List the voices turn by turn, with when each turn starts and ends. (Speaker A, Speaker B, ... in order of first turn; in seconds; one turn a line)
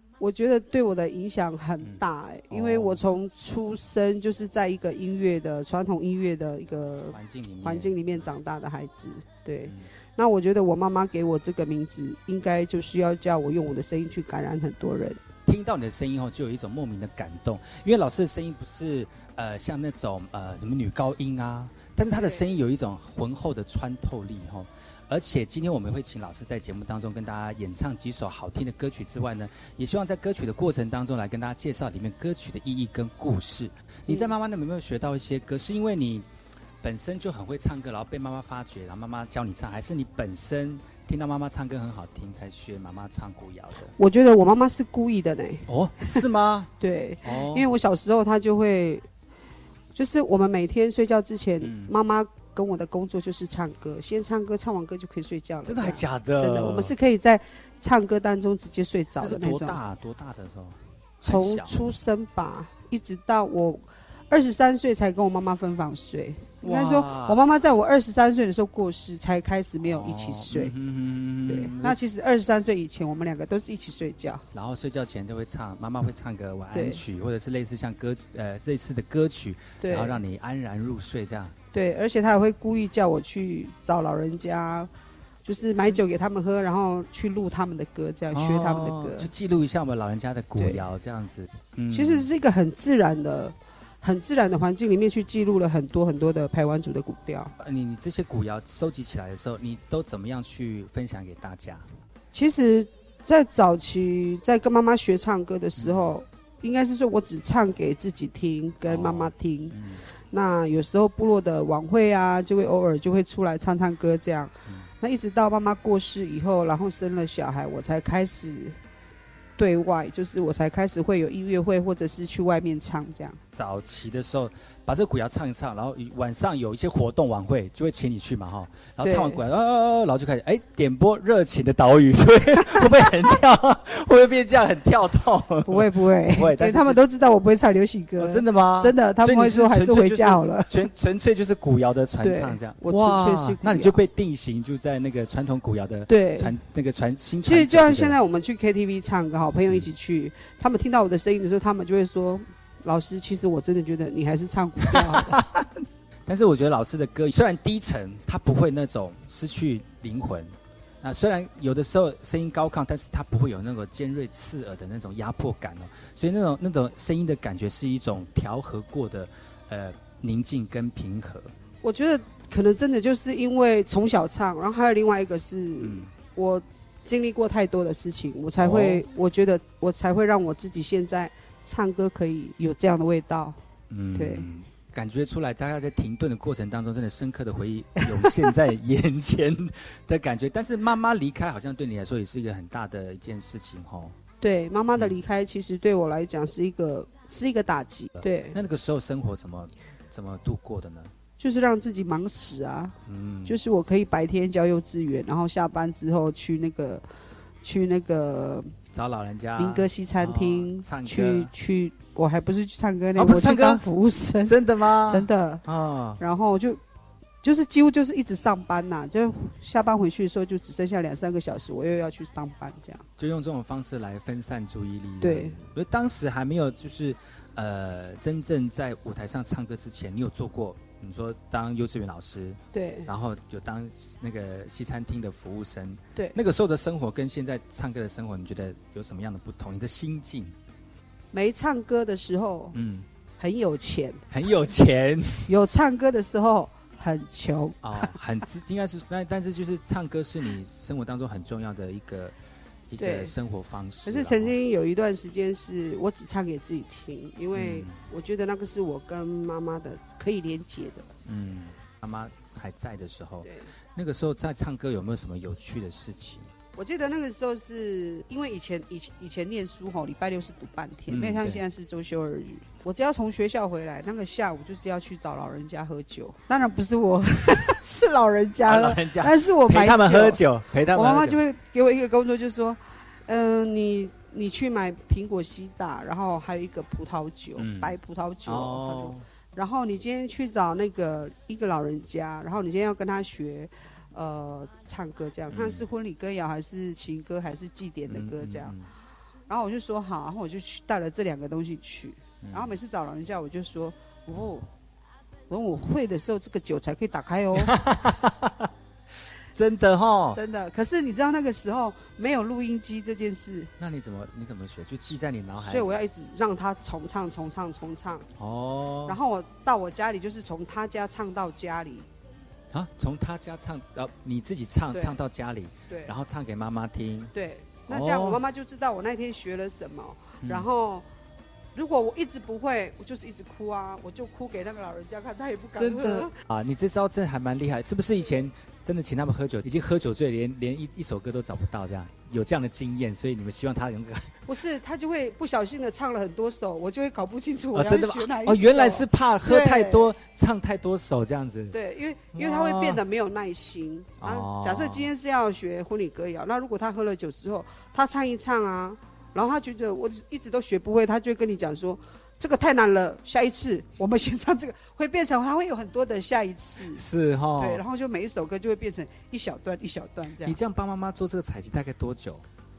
Speaker A: 0.2-15.2
Speaker B: 1.8-3.0
Speaker B: 7.1-8.3
Speaker B: 9.7-9.9
Speaker B: 15.4-36.3
Speaker A: 22.1-22.4
Speaker B: 36.8-43.9
Speaker A: 44.0-46.2
Speaker B: 45.7-46.7
Speaker A: 46.8-49.0
Speaker B: 47.2-47.7
Speaker A: 49.9-59.8
Speaker B: 51.6-51.9
Speaker B: 55.6-56.9
Speaker B: 59.2-61.8
Speaker A: 61.2-70.7
Speaker B: 66.6-67.4
Speaker B: 69.8-72.0
Speaker A: 71.5-74.4
Speaker B: 74.5-81.5
Speaker A: 76.7-77.0
Speaker A: 79.8-80.2
Speaker A: 81.7-84.9
Speaker A: 85.4-89.3
Speaker B: 88.3-92.3
Speaker A: 91.9-97.5
Speaker B: 97.6-101.9
Speaker A: 102.3-109.8
Speaker B: 105.8-106.1
Speaker B: 108.8-110.0
Speaker A: 110.3-118.8
Speaker A: 119.6-123.4
Speaker B: 123.5-137.0
Speaker A: 129.0-129.4
Speaker A: 135.7-140.9
Speaker B: 138.2-148.2
Speaker A: 142.2-144.0
Speaker A: 146.1-146.5
Speaker A: 147.4-155.3
Speaker B: 154.9-171.5
Speaker A: 171.8-183.6
Speaker B: 175.8-176.1
Speaker B: 178.6-179.0
Speaker B: 183.9-194.1
Speaker A: 184.1-184.5
Speaker A: 188.1-188.5
Speaker A: 194.4-198.6
Speaker B: 198.2-201.1
Speaker A: 201.4-207.0
Speaker B: 203.1-203.6
Speaker A: 207.6-208.7
Speaker B: 208.9-211.5
Speaker A: 209.6-215.6
Speaker B: 213.1-213.8
Speaker B: 214.4-216.2
Speaker A: 216.2-216.8
Speaker A: 217.4-223.1
Speaker B: 223.2-240.5
Speaker A: 225.2-225.6
Speaker A: 232.7-233.1
Speaker A: 241.3-242.8
Speaker B: 242.7-243.1
Speaker A: 243.4-244.3
Speaker B: 244.3-245.5
Speaker A: 245.5-248.2
Speaker B: 247.8-252.3
Speaker B: 252.9-254.5
Speaker A: 253.0-253.3
Speaker A: 254.0-261.1
Speaker B: 257.5-258.0
Speaker B: 261.2-266.5
Speaker A: 263.4-263.7
Speaker A: 266.8-298.7
Speaker B: 271.1-271.6
Speaker B: 278.6-281.4
Speaker B: 287.6-289.2
Speaker B: 295.5-295.9
Speaker B: 298.1-298.9
Speaker A: 299.5-304.7
Speaker B: 302.4-302.7
Speaker A: 305.5-307.7
Speaker B: 307.5-308.7
Speaker B: 309.5-310.4
Speaker A: 310.3-313.7
Speaker B: 313.8-315.9
Speaker A: 315.6-318.3
Speaker B: 318.4-319.2
Speaker A: 319.1-322.1
Speaker B: 322.7-327.3
Speaker A: 325.9-326.1
Speaker A: 327.3-331.1
Speaker B: 327.9-328.4
Speaker B: 330.4-330.7
Speaker A: 331.7-336.3
Speaker B: 335.8-344.3
Speaker A: 344.4-350.1
Speaker B: 347.7-351.8
Speaker A: 351.7-367.0
Speaker B: 352.3-353.0
Speaker B: 354.2-355.1
Speaker B: 366.9-367.8
Speaker A: 367.6-370.6
Speaker B: 370.4-372.4